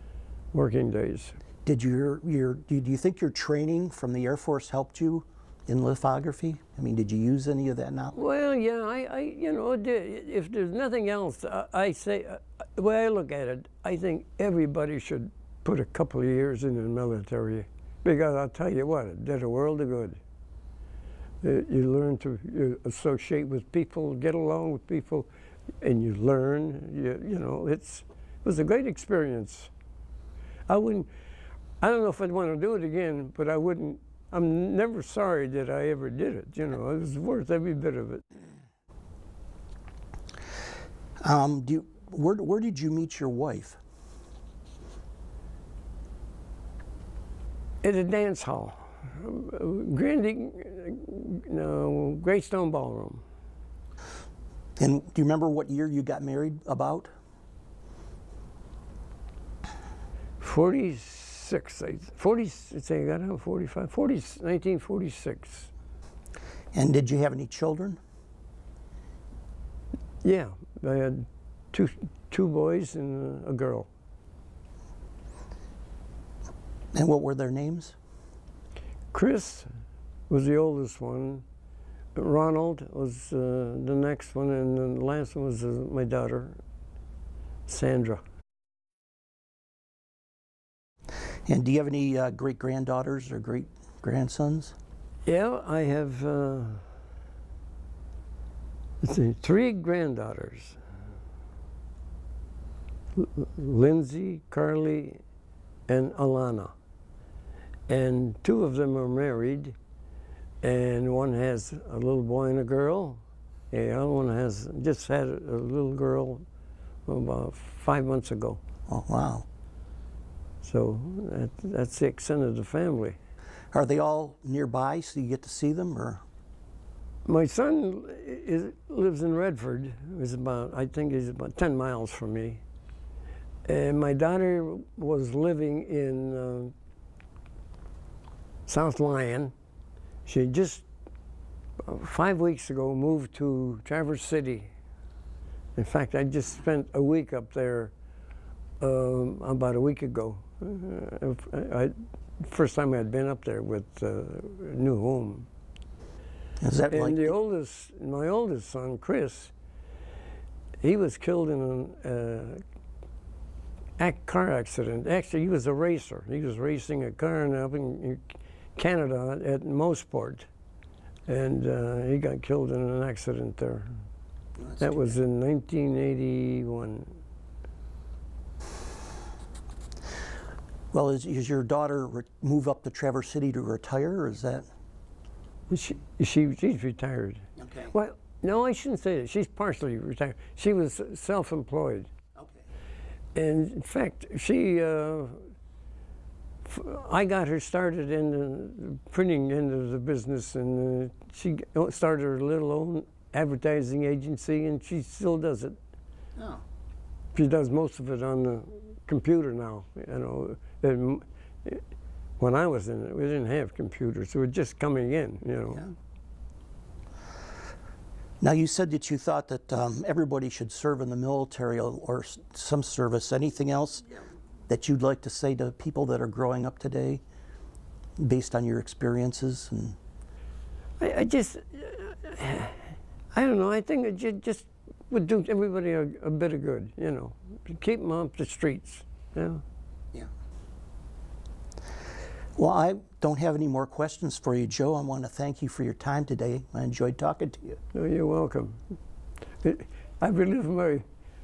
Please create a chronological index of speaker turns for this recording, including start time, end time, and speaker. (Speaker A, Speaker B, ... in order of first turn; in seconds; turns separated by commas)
Speaker A: 0.5-1.4, Speaker B: 1.6-8.2, Speaker A: 8.2-20.2, Speaker A: 21.4-25.3, Speaker A: 25.8-29.7, Speaker A: 30.7-31.1, Speaker A: 31.8-38.2, Speaker B: 41.2-43.8, Speaker A: 47.8-53.2, Speaker B: 54.8-57.1, Speaker A: 60.4-65.7, Speaker B: 66.7-68.0, Speaker A: 70.2-73.9, Speaker B: 76.9-77.9, Speaker A: 79.1-79.7, Speaker A: 80.3-81.4, Speaker A: 82.1-86.6, Speaker A: 87.7-88.2, Speaker B: 91.5-94.7, Speaker A: 95.2-96.9, Speaker A: 99.0-100.8, Speaker A: 103.2-105.2, Speaker A: 105.9-106.7, Speaker A: 107.9-109.8, Speaker A: 110.6-116.4, Speaker A: 117.1-118.6, Speaker B: 118.9-119.5, Speaker A: 120.6-123.2, Speaker B: 123.7-126.2, Speaker A: 127.2-132.6, Speaker A: 133.7-136.7, Speaker A: 138.7-139.5, Speaker A: 140.2-140.8, Speaker A: 141.8-144.7, Speaker A: 145.8-147.9, Speaker A: 148.8-155.5, Speaker B: 156.6-157.3, Speaker A: 156.9-159.5, Speaker A: 160.8-162.6, Speaker A: 164.0-170.5, Speaker A: 171.3-174.0, Speaker A: 174.8-177.2, Speaker B: 180.9-184.7, Speaker A: 185.7-192.1, Speaker A: 193.3-195.5, Speaker A: 196.6-205.8, Speaker A: 207.3-211.8, Speaker A: 212.4-215.9, Speaker B: 218.4-224.1, Speaker B: 224.7-227.2, Speaker B: 228.2-230.0, Speaker A: 231.0-239.6, Speaker B: 242.6-247.8, Speaker A: 247.9-248.8, Speaker A: 249.6-251.0